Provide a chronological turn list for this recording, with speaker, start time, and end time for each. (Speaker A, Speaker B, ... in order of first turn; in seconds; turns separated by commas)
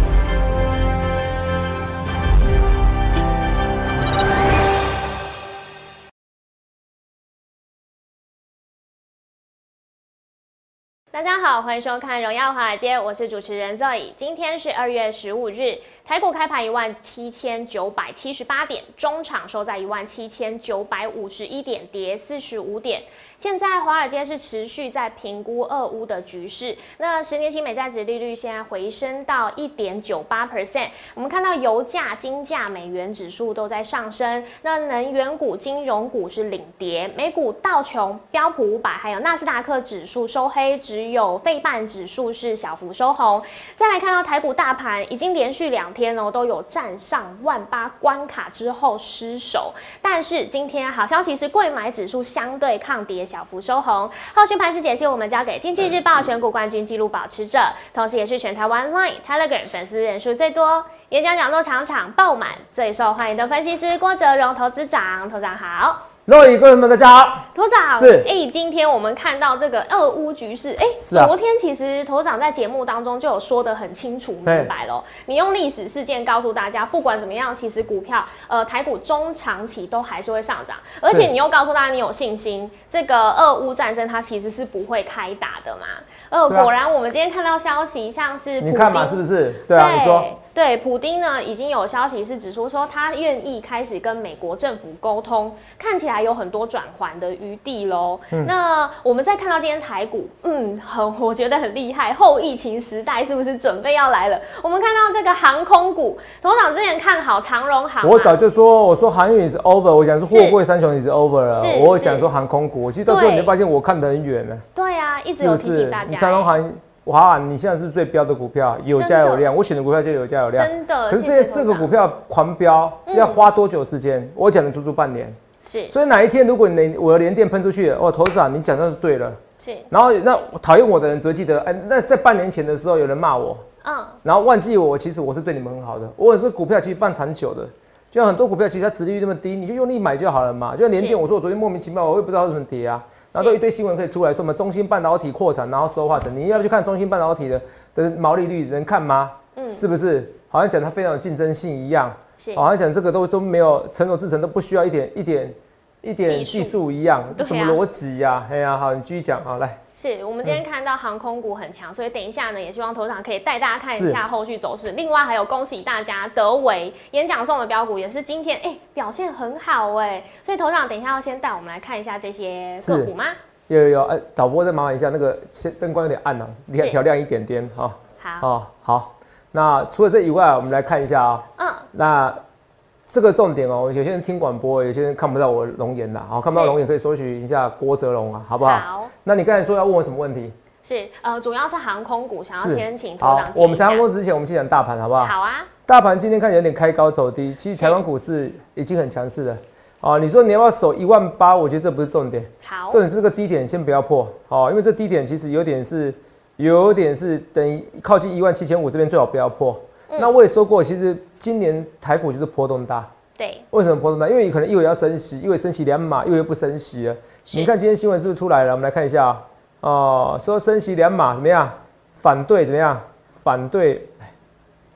Speaker A: 11.1-66.0, Speaker B: 66.3-68.3, Speaker A: 67.5-108.4, Speaker B: 71.0-71.3, Speaker B: 74.4-74.7, Speaker B: 88.6-90.3, Speaker B: 108.0-114.6, Speaker A: 110.3-110.6, Speaker A: 111.5-112.3, Speaker A: 113.0-113.5, Speaker A: 114.7-116.5, Speaker B: 115.2-125.4, Speaker A: 118.9-119.5, Speaker A: 120.5-122.0, Speaker A: 123.1-123.4, Speaker A: 125.6-125.9, Speaker B: 125.9-129.4, Speaker A: 129.6-129.9, Speaker B: 129.9-133.6, Speaker A: 133.8-134.2, Speaker B: 134.2-159.8, Speaker A: 140.9-141.2, Speaker A: 143.3-143.6, Speaker A: 149.5-149.8, Speaker A: 152.4-152.6, Speaker A: 156.2-156.8, Speaker A: 157.3-157.8, Speaker A: 159.9-173.4, Speaker B: 163.9-164.2, Speaker B: 172.8-173.1, Speaker B: 173.7-182.4, Speaker A: 176.8-177.0, Speaker A: 178.2-178.5, Speaker A: 181.6-181.9, Speaker B: 183.1-190.5, Speaker A: 186.5-186.8, Speaker A: 188.6-189.1, Speaker A: 190.8-194.1, Speaker B: 192.5-195.3, Speaker A: 195.2-195.7, Speaker B: 195.9-213.1, Speaker A: 197.7-198.0, Speaker A: 202.6-203.0, Speaker A: 213.4-213.7, Speaker B: 213.7-224.3, Speaker A: 217.4-217.7